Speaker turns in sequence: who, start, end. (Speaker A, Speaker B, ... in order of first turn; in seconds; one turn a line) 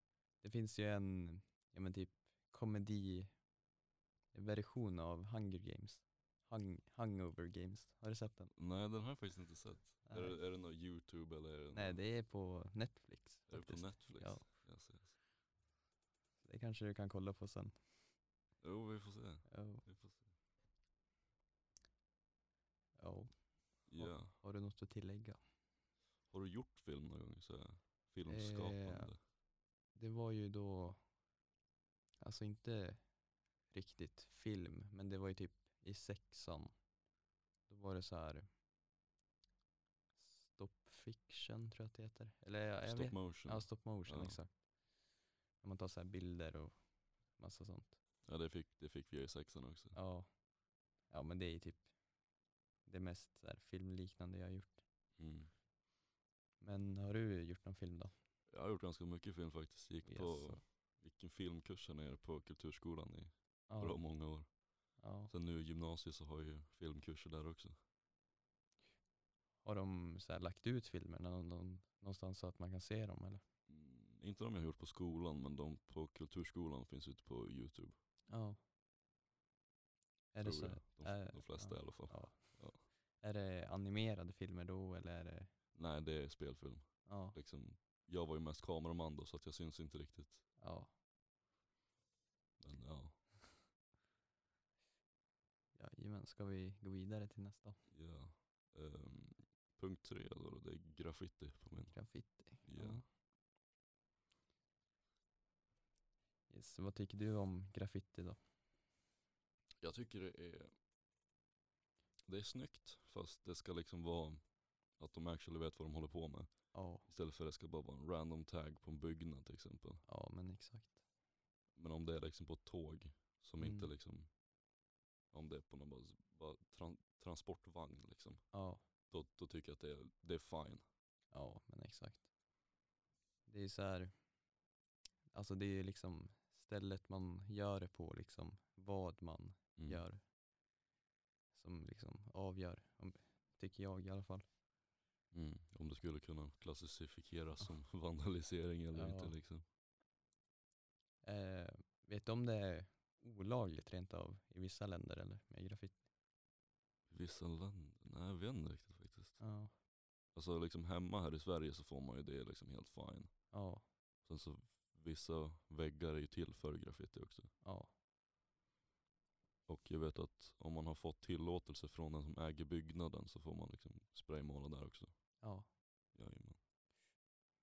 Speaker A: 0.4-3.3
Speaker A: 4.3-8.5
Speaker B: 8.5-12.0
Speaker A: 10.1-10.4
Speaker A: 11.7-14.5
Speaker B: 13.5-15.2
Speaker A: 16.4-17.8
Speaker B: 18.6-20.2
Speaker A: 19.5-19.9
Speaker A: 23.0-23.3
Speaker B: 23.9-24.4
Speaker A: 24.0-25.4
Speaker B: 26.3-29.2
Speaker A: 28.3-29.1
Speaker A: 29.9-31.0
Speaker A: 32.2-33.0
Speaker A: 33.7-36.7
Speaker A: 37.7-38.5
Speaker A: 40.2-44.5
Speaker B: 42.8-44.4
Speaker A: 45.6-46.7
Speaker A: 47.4-48.0
Speaker B: 48.2-50.0
Speaker A: 49.9-50.3
Speaker A: 51.1-51.9
Speaker A: 52.9-54.8
Speaker B: 55.2-55.5
Speaker A: 56.6-58.1
Speaker B: 58.5-64.5
Speaker A: 60.0-60.6
Speaker A: 63.7-64.0
Speaker A: 65.0-65.3
Speaker B: 65.3-67.8
Speaker A: 69.6-73.4
Speaker B: 73.7-78.0
Speaker A: 78.3-78.6
Speaker A: 80.3-82.6
Speaker B: 80.4-82.8
Speaker A: 83.2-85.5
Speaker B: 85.8-90.4
Speaker A: 87.0-87.4
Speaker A: 90.6-90.9
Speaker B: 92.6-93.2
Speaker A: 95.8-97.8
Speaker B: 97.9-102.0
Speaker A: 101.9-103.0
Speaker B: 102.6-103.0
Speaker A: 106.5-108.4
Speaker B: 109.8-110.7
Speaker B: 112.3-114.4
Speaker B: 115.0-116.5
Speaker A: 116.7-117.1
Speaker B: 117.1-120.0
Speaker A: 120.0-121.0
Speaker B: 121.8-124.3
Speaker A: 123.6-123.9
Speaker B: 125.3-128.4
Speaker A: 128.5-128.8
Speaker B: 129.1-130.8
Speaker A: 131.3-132.2
Speaker A: 133.5-134.1
Speaker A: 135.3-140.2
Speaker B: 139.8-140.0
Speaker A: 141.5-144.4
Speaker B: 145.3-149.6
Speaker A: 148.9-149.4
Speaker A: 151.2-156.0
Speaker B: 157.1-159.4
Speaker A: 159.4-159.7
Speaker B: 160.3-163.4
Speaker A: 163.5-163.8
Speaker B: 164.2-167.5
Speaker A: 167.6-167.9
Speaker B: 169.7-175.1
Speaker A: 175.4-175.7
Speaker B: 176.1-176.6